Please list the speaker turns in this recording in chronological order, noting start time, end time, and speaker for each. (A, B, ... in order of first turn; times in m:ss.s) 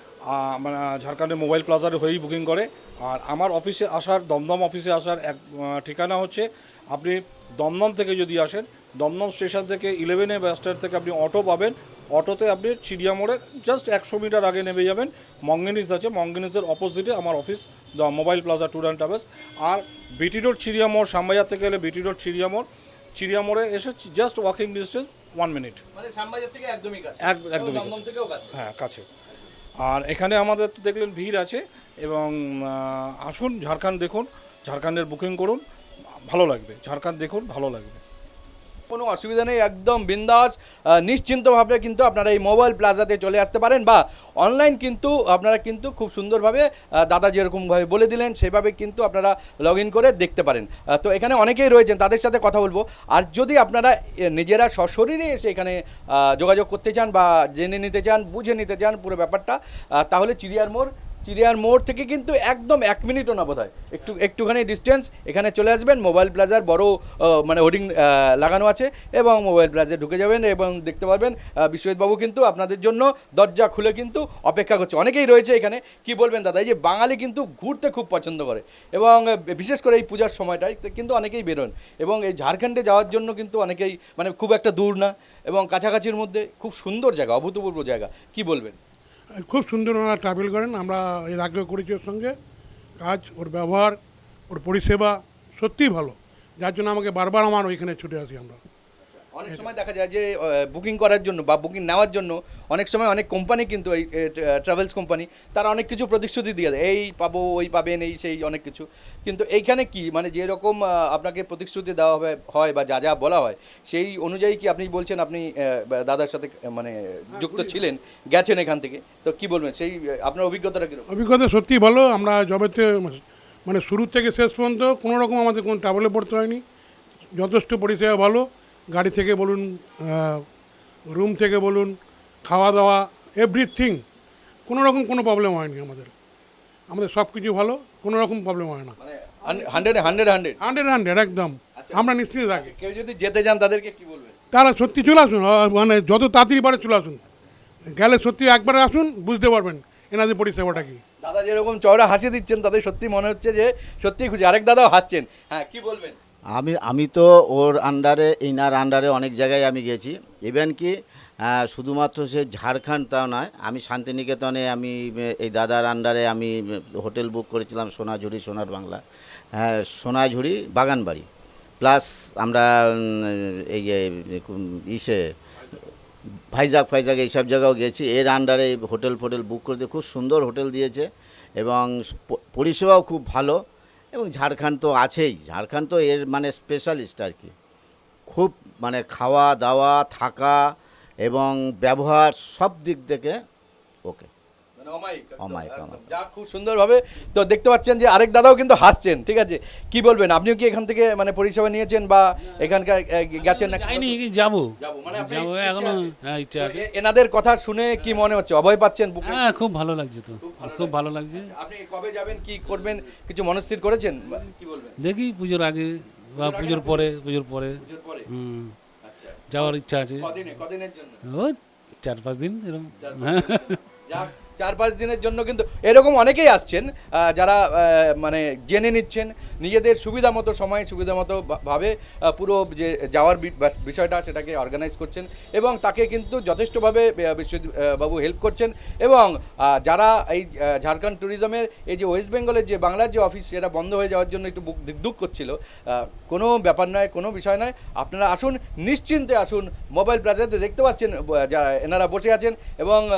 0:00.3-0:25.8 A
0:25.9-0:28.5 B
0:27.2-0:28.0 A
0:28.5-0:29.0 A
0:29.8-0:35.6 A
0:36.3-0:38.0 A
0:38.9-1:28.8 B
1:29.4-1:32.3 C
1:33.0-1:34.0 C
1:34.5-1:38.6 C
1:39.1-2:01.1 B
1:57.4-1:57.8 C
2:01.1-2:06.6 C
2:07.3-2:10.4 C
2:11.1-2:14.0 C
2:14.7-2:16.1 C
2:16.9-2:22.7 C
2:19.0-2:20.6 B
2:21.8-2:24.3 B
2:24.5-2:27.2 C
2:27.9-2:31.0 C
2:30.7-2:36.2 B
2:36.5-2:49.0 D
2:49.5-2:51.2 D
2:51.8-2:55.2 D
2:56.5-3:01.1 D
3:01.6-3:03.6 D
3:04.1-3:07.5 D
3:08.3-3:10.6 D
3:11.2-3:13.4 D
3:14.8-3:24.2 B
3:15.4-3:16.1 D
3:23.8-3:24.6 E
3:24.8-3:29.4 B
3:25.2-3:26.8 E
3:29.4-3:31.5 E
3:30.4-3:35.0 B
3:35.0-3:37.7 E
3:36.4-3:37.1 B
3:37.8-3:38.3 B
3:38.3-3:38.7 E
3:39.0-3:41.2 B
3:39.5-3:40.2 E
3:41.3-3:43.8 E
3:43.0-4:13.0 B